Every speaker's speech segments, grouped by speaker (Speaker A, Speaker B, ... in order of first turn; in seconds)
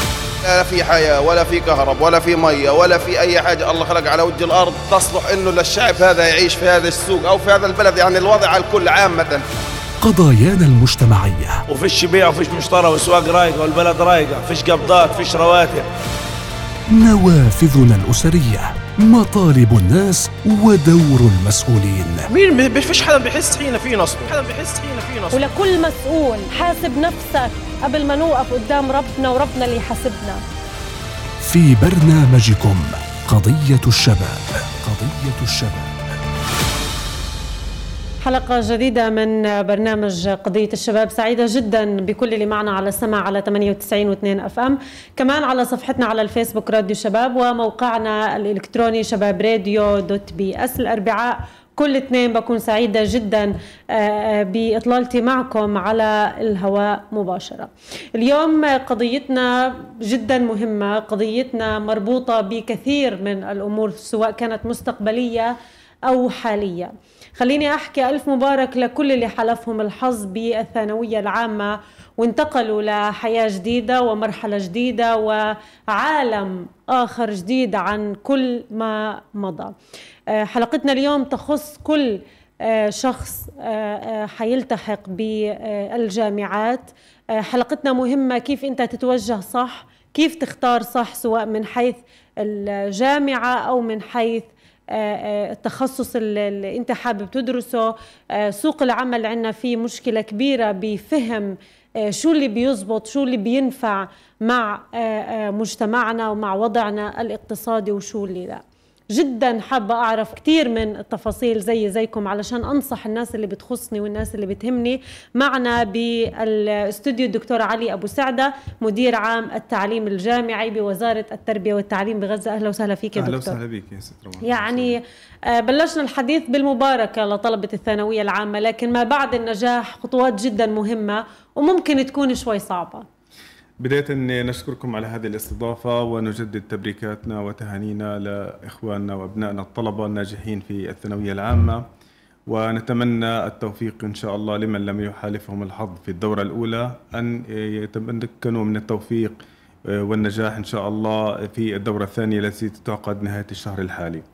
Speaker A: 0.4-9.4
Speaker B: 10.0-11.6, 16.9-22.3, 31.4-35.9
Speaker C: 11.7-15.9, 22.3-25.4
Speaker D: 25.3-30.4, 38.2-65.5, 66.1-79.7, 80.3-101.5, 102.0-108.6, 109.1-123.6, 124.4-133.0
Speaker E: 123.1-125.0, 133.8-141.8, 142.5-154.2